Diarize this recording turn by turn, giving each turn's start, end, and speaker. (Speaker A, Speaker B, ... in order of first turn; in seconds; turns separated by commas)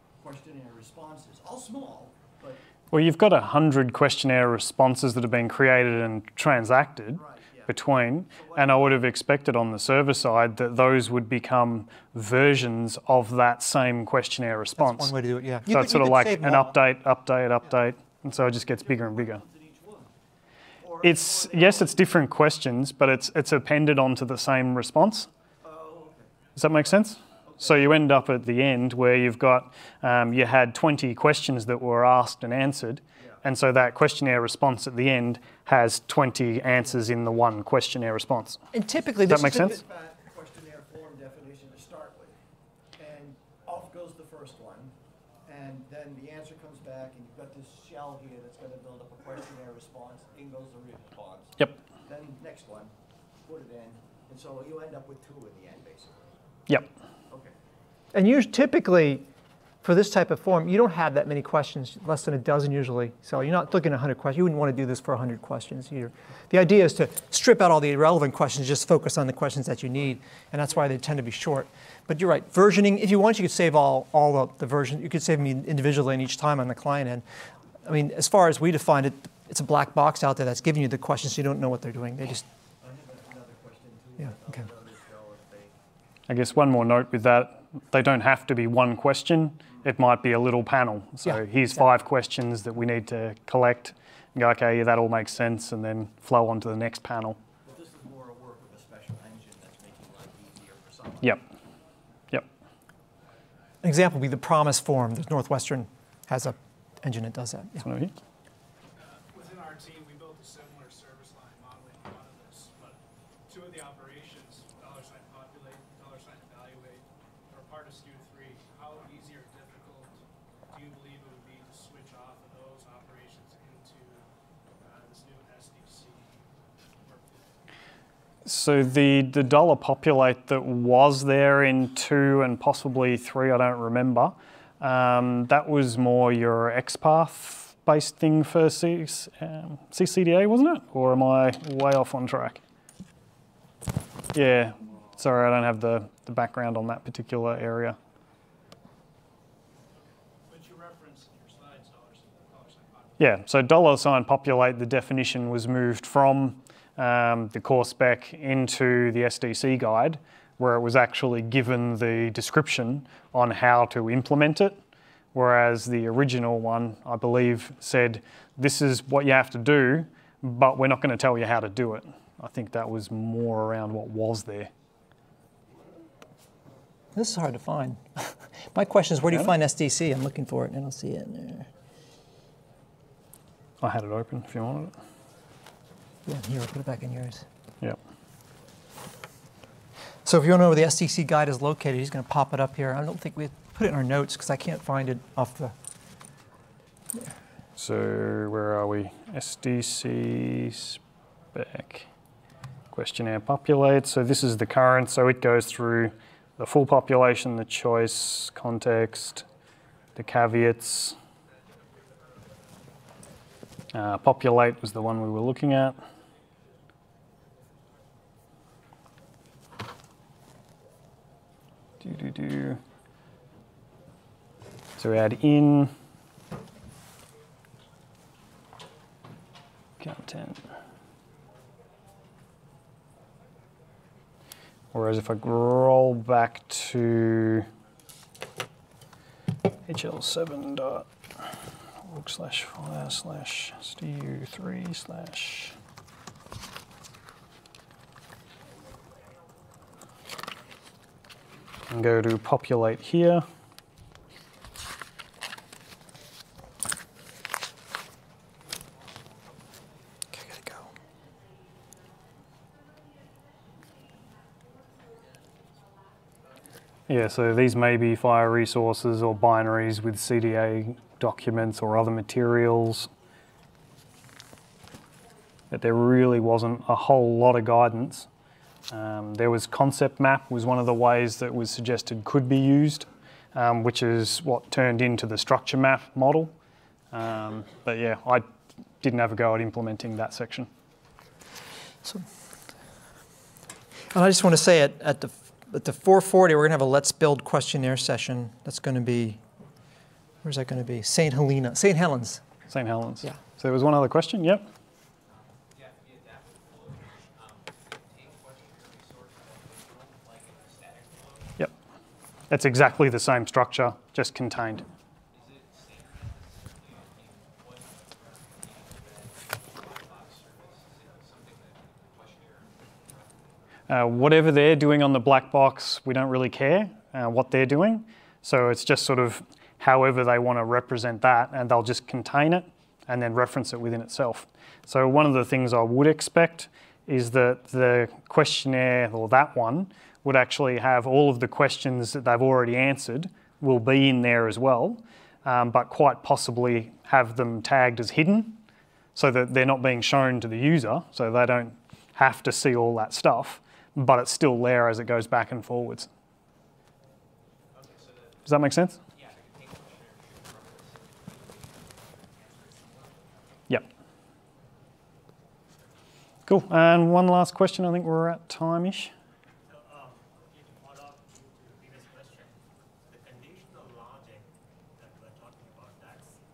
Speaker A: 0.2-2.6, Speaker B: 2.9-15.1, Speaker A: 7.1-9.0, Speaker C: 14.8-16.8, Speaker B: 15.7-19.4, Speaker A: 18.4-20.1, Speaker A: 20.8-22.0, Speaker B: 21.0-25.3, Speaker A: 25.6-26.3, Speaker B: 26.6-38.6, Speaker A: 27.4-27.9, Speaker A: 33.1-33.4, Speaker C: 38.7-39.8, Speaker B: 39.3-39.8, Speaker A: 39.3-42.3, Speaker A: 43.0-44.9, Speaker A: 45.5-52.9, Speaker A: 53.4-56.4, Speaker A: 57.3-57.5, Speaker C: 58.1-59.2, Speaker C: 59.8-77.2, Speaker C: 77.8-82.4, Speaker A: 82.8-85.8, Speaker B: 86.3-97.4, Speaker C: 91.2-91.8, Speaker A: 97.6-101.4, Speaker C: 103.8-107.8, Speaker B: 107.8-108.1, Speaker D: 109.0-120.1, Speaker D: 120.7-124.3, Speaker D: 124.8-127.6, Speaker B: 128.4-142.6, Speaker B: 144.3-148.0, Speaker D: 149.9-153.3, Speaker B: 153.2-164.8, Speaker B: 165.3-174.7, Speaker C: 177.1-181.7, Speaker B: 183.8-184.9, Speaker C: 186.2-187.4, Speaker C: 190.2-195.7, Speaker B: 197.8-201.0, Speaker B: 201.5-202.1, Speaker B: 202.9-209.5, Speaker B: 210.2-211.2, Speaker B: 213.9-216.0, Speaker B: 222.0-222.8, Speaker B: 225.0-225.9, Speaker B: 230.0-230.6, Speaker B: 234.9-237.7, Speaker B: 239.8-241.1, Speaker B: 242.0-245.8, Speaker B: 251.9-253.4, Speaker B: 260.4-260.8, Speaker B: 267.1-273.1, Speaker B: 275.7-278.3, Speaker B: 278.9-286.5, Speaker B: 287.1-288.5, Speaker B: 289.0-290.7, Speaker C: 294.1-299.4, Speaker C: 300.4-302.4, Speaker B: 302.7-304.7, Speaker E: 305.3-311.7, Speaker B: 312.5-314.8, Speaker E: 315.3-323.7, Speaker B: 323.9-348.6, Speaker B: 349.1-356.1, Speaker E: 357.7-358.6, Speaker B: 358.4-359.0, Speaker E: 359.1-363.6, Speaker B: 366.5-369.1, Speaker F: 369.6-376.4